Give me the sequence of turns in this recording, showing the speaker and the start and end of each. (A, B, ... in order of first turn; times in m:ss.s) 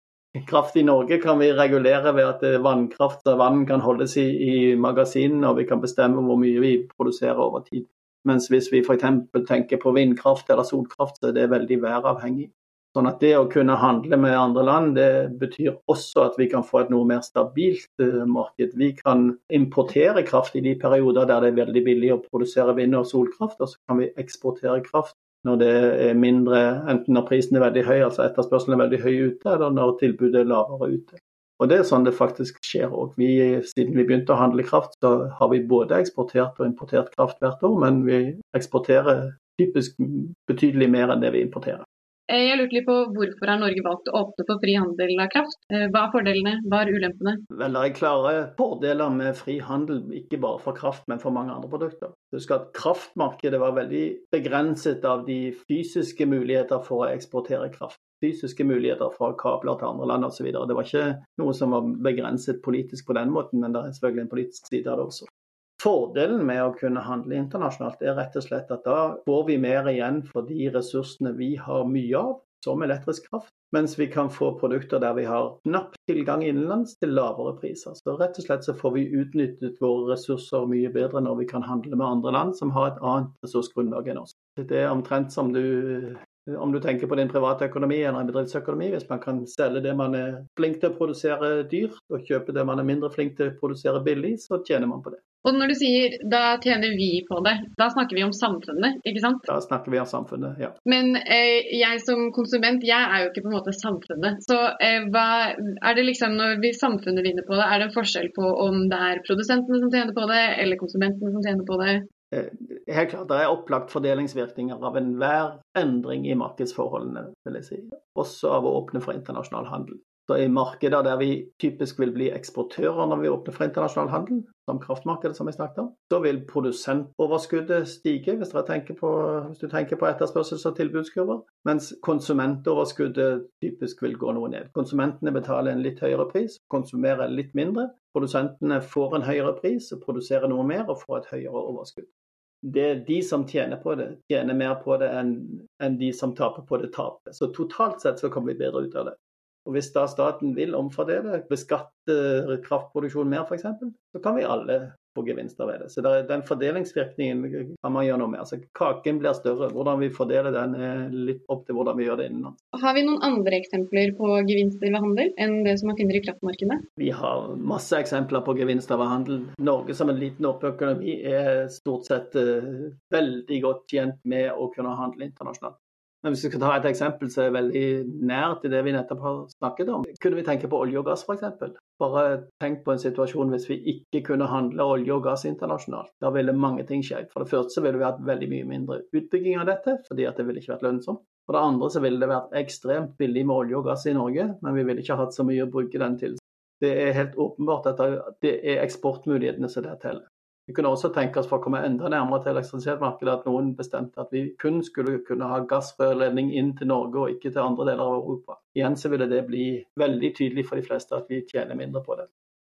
0:00.4-0:41.8 A
0:42.3-0:47.4 B
0:47.5-1:05.3 A
1:05.8-1:35.2 A
1:35.4-1:39.4 B
1:39.5-1:40.7 A
1:40.8-1:52.1 B
1:52.3-2:22.1 A
2:22.6-2:29.2 A
2:29.6-2:42.6 A
2:42.8-2:46.8 B
2:47.0-3:32.3 A